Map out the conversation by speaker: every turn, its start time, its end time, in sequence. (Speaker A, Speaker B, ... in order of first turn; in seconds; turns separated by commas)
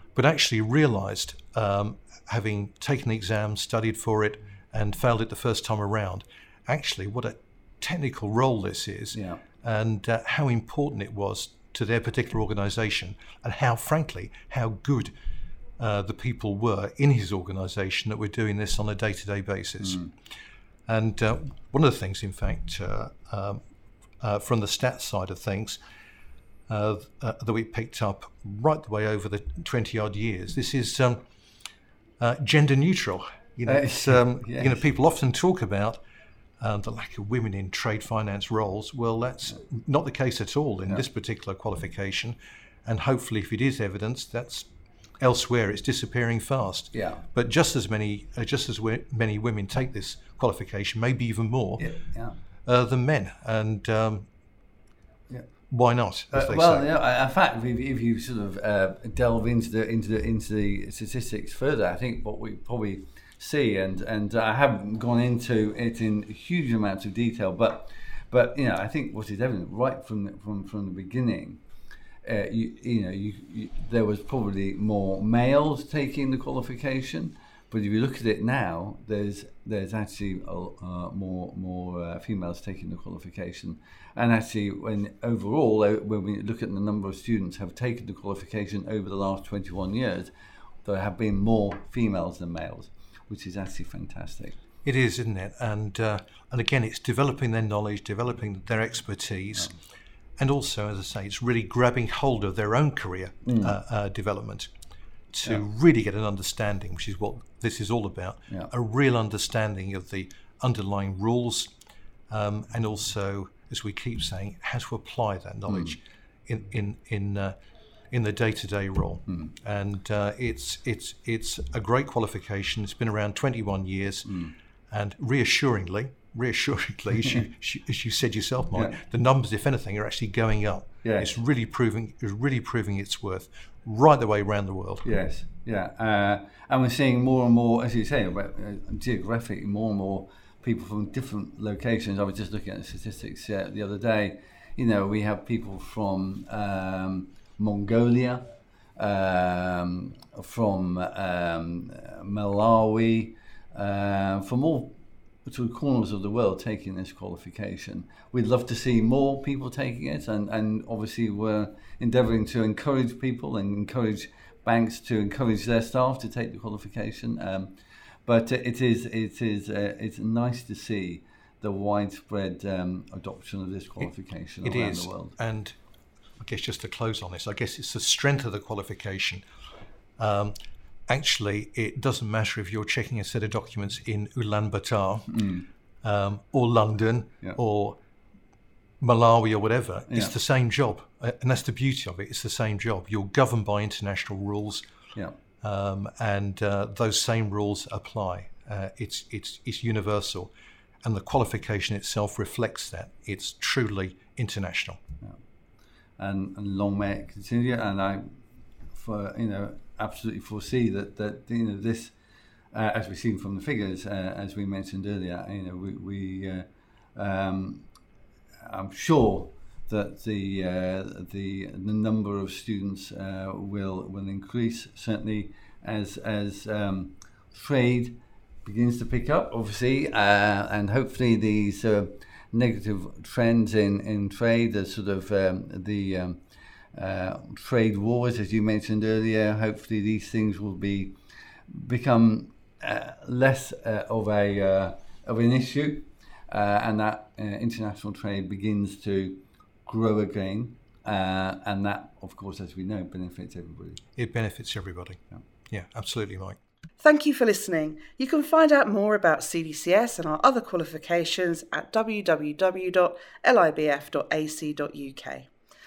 Speaker A: 0.1-15.1, Speaker B: 9.1-9.4, Speaker A: 15.8-20.1, Speaker A: 20.9-23.6, Speaker A: 24.2-25.8, Speaker A: 26.7-31.2, Speaker A: 32.2-36.0, Speaker B: 33.6-34.8, Speaker A: 36.6-44.7, Speaker A: 45.2-51.9, Speaker B: 46.9-47.2, Speaker B: 51.8-52.3, Speaker A: 52.6-54.3, Speaker A: 55.7-56.9, Speaker B: 56.3-71.6, Speaker B: 72.2-90.3, Speaker B: 90.8-94.6, Speaker A: 94.8-99.7, Speaker A: 100.4-104.7, Speaker B: 103.4-103.8, Speaker A: 105.3-111.7, Speaker A: 112.3-117.5, Speaker A: 118.1-135.1, Speaker B: 131.0-131.3, Speaker B: 135.0-175.3, Speaker A: 174.6-175.8, Speaker A: 176.4-179.4, Speaker A: 180.2-180.6, Speaker A: 181.1-188.0, Speaker B: 185.3-185.6, Speaker A: 189.0-194.9, Speaker B: 190.1-190.3, Speaker A: 195.6-200.5, Speaker A: 201.0-205.0, Speaker B: 206.2-208.4, Speaker B: 208.9-212.1, Speaker B: 212.7-217.9, Speaker B: 218.6-236.4, Speaker B: 236.9-241.2, Speaker B: 241.7-254.0, Speaker A: 254.2-256.6, Speaker C: 257.0-265.5